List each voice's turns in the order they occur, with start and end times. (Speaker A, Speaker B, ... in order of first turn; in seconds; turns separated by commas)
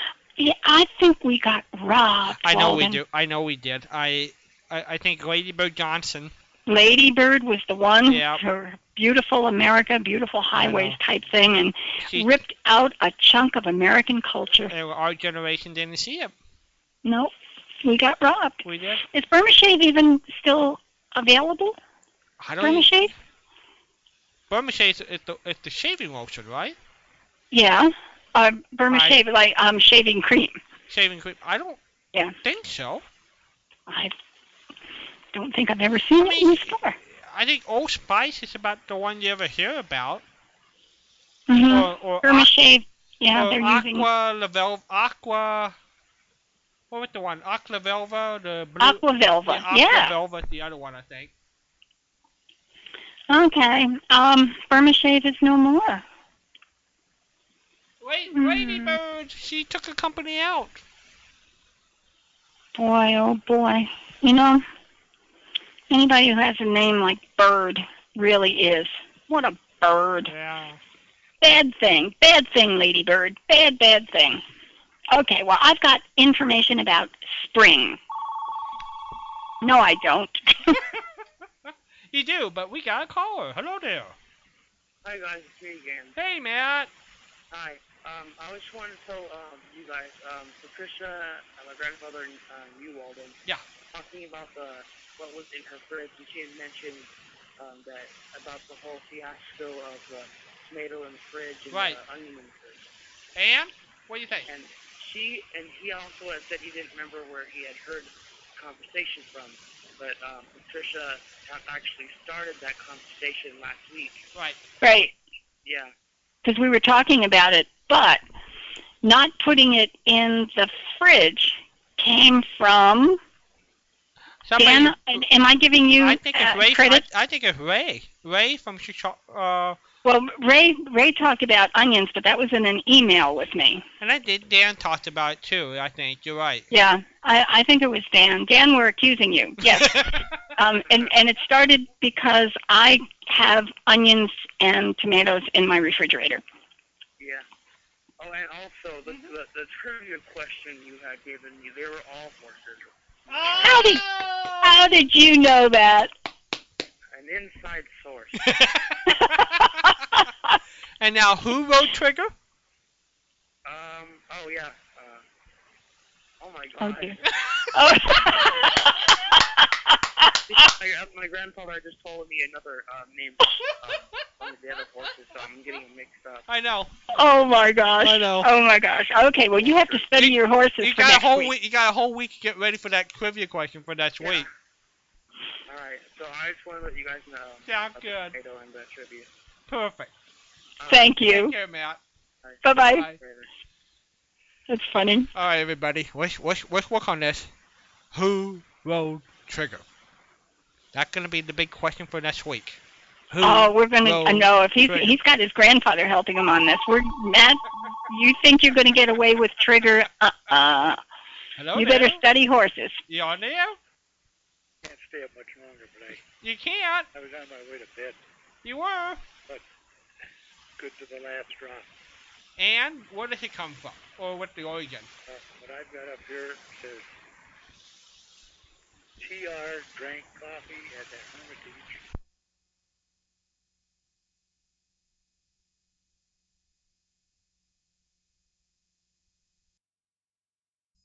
Speaker A: 0.4-3.0, Speaker B: 2.4-6.3, Speaker A: 6.7-14.7, Speaker B: 8.1-8.4, Speaker B: 10.6-11.0, Speaker B: 12.0-12.4, Speaker B: 14.7-16.3, Speaker A: 17.0-17.3, Speaker A: 17.8-21.8, Speaker B: 18.6-19.0, Speaker B: 22.4-23.1, Speaker A: 22.6-23.1, Speaker B: 24.5-26.8, Speaker A: 27.5-30.6, Speaker B: 28.9-29.2, Speaker B: 30.9-31.8, Speaker B: 32.4-33.0, Speaker A: 33.9-34.1, Speaker A: 35.3-37.0, Speaker B: 36.2-40.2, Speaker A: 41.5-44.1, Speaker B: 41.6-42.5, Speaker B: 43.3-45.7, Speaker B: 46.9-51.3, Speaker A: 48.8-50.1, Speaker A: 53.3-56.0, Speaker B: 58.0-60.8, Speaker A: 58.3-59.0, Speaker A: 62.7-64.6, Speaker A: 65.9-70.3, Speaker B: 70.3-70.8, Speaker A: 71.4-74.4, Speaker A: 75.1-78.0, Speaker A: 79.6-80.8, Speaker B: 81.7-84.2, Speaker C: 85.0-86.2, Speaker B: 86.2-86.9, Speaker C: 87.5-93.4, Speaker C: 93.9-102.9, Speaker B: 101.7-102.0, Speaker B: 103.3-104.5, Speaker C: 104.5-114.2, Speaker A: 114.8-115.1, Speaker C: 115.6-115.9, Speaker A: 116.4-118.2, Speaker A: 119.0-123.2, Speaker B: 124.4-125.2, Speaker A: 124.6-127.0, Speaker B: 126.0-129.8, Speaker A: 130.0-133.8, Speaker B: 134.0-136.7, Speaker A: 136.7-146.4, Speaker B: 139.6-140.2, Speaker C: 147.2-147.4, Speaker C: 148.2-152.9, Speaker B: 153.3-154.9, Speaker A: 153.6-154.0, Speaker A: 154.6-156.1, Speaker C: 157.1-158.7, Speaker B: 158.4-159.8, Speaker A: 159.1-160.5, Speaker B: 161.0-162.3, Speaker C: 163.6-165.2, Speaker C: 166.4-167.2, Speaker A: 166.8-170.3, Speaker C: 170.5-176.4, Speaker B: 176.5-176.9, Speaker A: 177.1-181.5, Speaker B: 178.0-178.5, Speaker C: 179.6-180.0, Speaker B: 180.1-184.5, Speaker C: 184.2-184.5, Speaker C: 185.7-189.3, Speaker B: 187.7-188.3, Speaker B: 189.7-190.1, Speaker C: 190.8-191.1, Speaker A: 190.9-191.5, Speaker B: 191.2-192.0, Speaker C: 192.4-193.5, Speaker A: 192.6-193.1, Speaker B: 192.7-193.2, Speaker A: 194.7-195.3, Speaker B: 195.3-197.5, Speaker B: 198.1-199.8, Speaker B: 200.9-205.1, Speaker A: 203.4-211.0, Speaker B: 211.6-212.2, Speaker A: 211.7-213.0, Speaker B: 213.1-213.8, Speaker D: 214.8-216.3, Speaker B: 216.4-217.1, Speaker D: 217.1-218.2, Speaker B: 218.6-219.2, Speaker D: 220.8-221.9, Speaker B: 222.6-225.1, Speaker D: 225.3-227.1, Speaker D: 229.2-232.0